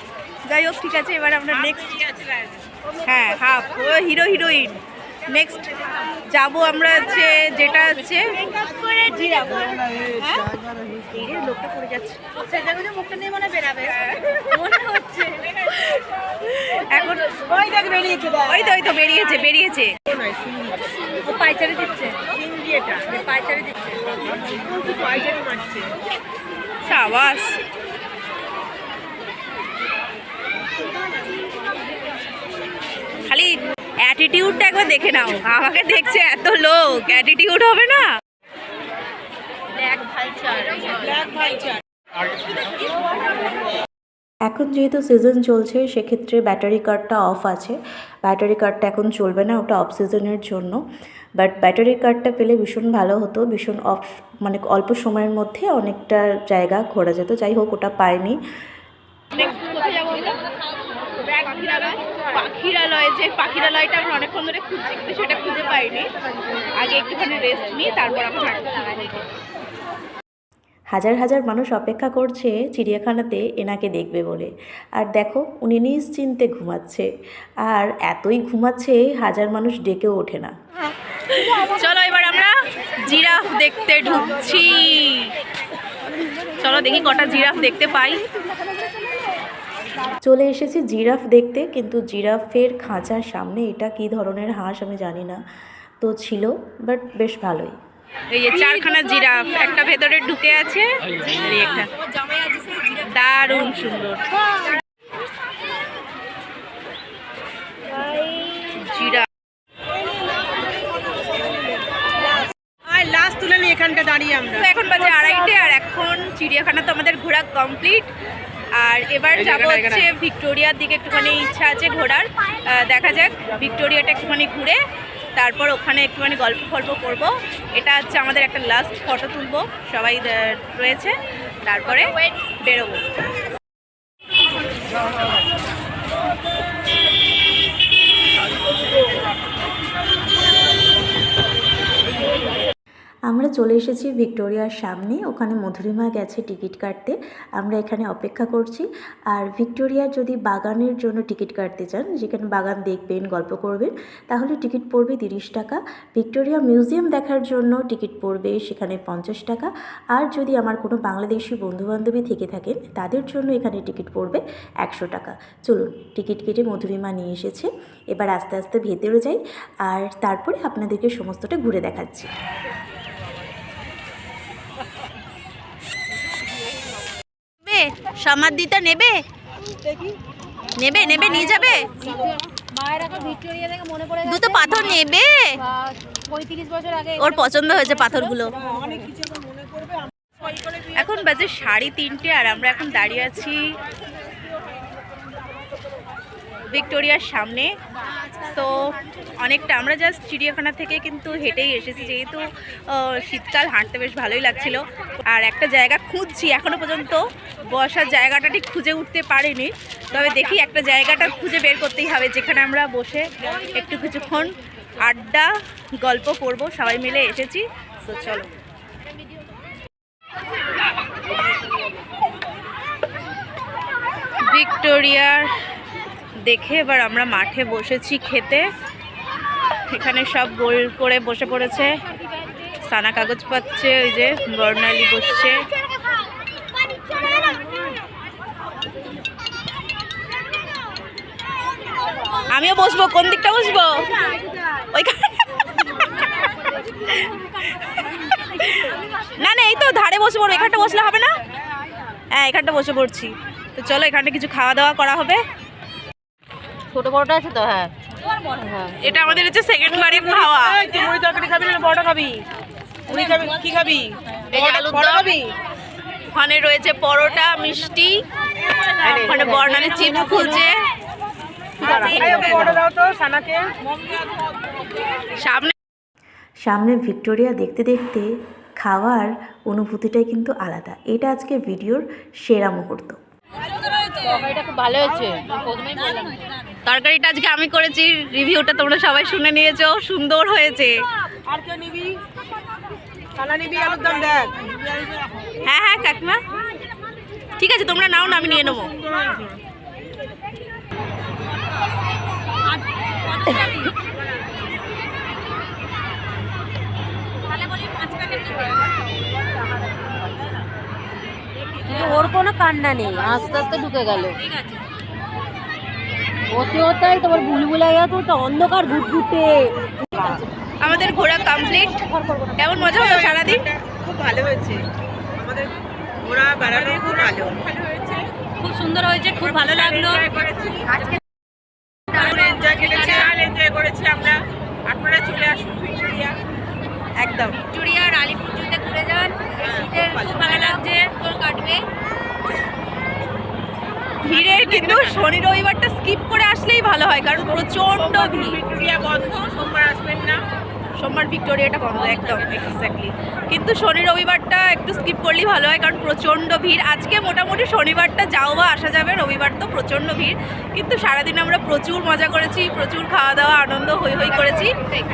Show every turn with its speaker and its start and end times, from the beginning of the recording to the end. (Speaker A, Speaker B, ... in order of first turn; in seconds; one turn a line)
Speaker A: 0.5-2.0
Speaker B: 2.0-2.6
Speaker A: 3.0-5.7
Speaker A: 6.3-8.4
Speaker B: 8.8-10.1
Speaker C: 9.0-9.6
Speaker A: 10.2-10.5
Speaker A: 11.1-12.2
Speaker B: 12.4-13.9
Speaker C: 12.6-13.6
Speaker C: 14.4-15.5
Speaker A: 15.7-17.5
Speaker B: 17.5-18.6
Speaker A: 18.4-19.9
Speaker B: 20.2-20.7
Speaker C: 21.2-22.3
Speaker B: 22.3-23.1
Speaker C: 23.1-24.1
Speaker B: 24.5-25.9
Speaker A: 26.8-27.5
Speaker A: 33.3-38.0
Speaker A: 40.3-41.2
Speaker C: 40.5-41.1
Speaker B: 41.2-41.8
Speaker D: 44.5-50.8
Speaker D: 51.4-58.4
Speaker A: 59.3-60.4
Speaker A: 61.2-66.1
Speaker A: 66.8-69.2
Speaker D: 70.9-77.1
Speaker D: 77.7-80.5
Speaker A: 81.3-85.3
Speaker A: 86.6-88.2
Speaker D: 90.2-95.4
Speaker D: 96.0-97.7
Speaker A: 98.3-101.9
Speaker A: 102.9-104.4
Speaker C: 107.9-108.8
Speaker A: 108.7-109.3
Speaker B: 112.8-114.6
Speaker A: 114.5-118.1
Speaker A: 118.8-124.8
Speaker A: 125.3-133.0
Speaker D: 143.3-172.3
Speaker A: 177.6-179.2
Speaker A: 180.8-181.9
Speaker C: 181.2-185.0
Speaker A: 184.2-185.6
Speaker C: 185.6-187.4
Speaker A: 187.2-188.6
Speaker C: 188.5-189.0
Speaker B: 188.8-189.4
Speaker A: 190.9-193.6
Speaker A: 196.7-197.7
Speaker A: 198.3-218.5
Speaker A: 224.5-225.5
Speaker A: 226.4-228.7
Speaker A: 229.9-231.9
Speaker A: 232.9-235.6
Speaker A: 242.5-244.2
Speaker A: 244.8-251.4
Speaker C: 248.3-248.8
Speaker A: 252.3-255.4
Speaker C: 256.9-259.4
Speaker A: 258.9-260.9
Speaker B: 260.1-262.4
Speaker B: 263.1-265.5
Speaker C: 263.1-263.5
Speaker A: 264.5-265.4
Speaker A: 266.3-268.2
Speaker A: 269.0-270.8
Speaker C: 269.4-270.4
Speaker A: 271.8-272.8
Speaker B: 271.8-274.1
Speaker A: 275.4-275.7
Speaker D: 276.6-278.3
Speaker D: 278.8-283.2
Speaker C: 284.1-286.4
Speaker A: 286.8-290.9
Speaker B: 291.5-292.2
Speaker B: 293.4-295.5
Speaker A: 295.6-296.4
Speaker A: 297.6-298.9
Speaker B: 298.9-299.6
Speaker C: 302.7-303.9
Speaker C: 307.5-308.9
Speaker C: 311.8-314.8
Speaker C: 316.5-320.4
Speaker A: 320.8-322.1
Speaker C: 322.0-322.8
Speaker A: 322.6-323.6
Speaker B: 323.0-324.8
Speaker B: 325.4-328.2
Speaker C: 328.6-330.3
Speaker B: 329.6-330.9
Speaker C: 330.9-331.2
Speaker C: 332.1-333.3
Speaker B: 332.2-336.4
Speaker A: 337.2-337.7
Speaker C: 337.6-341.8
Speaker B: 339.6-340.6
Speaker A: 344.2-348.6
Speaker B: 348.4-350.4
Speaker A: 351.0-364.8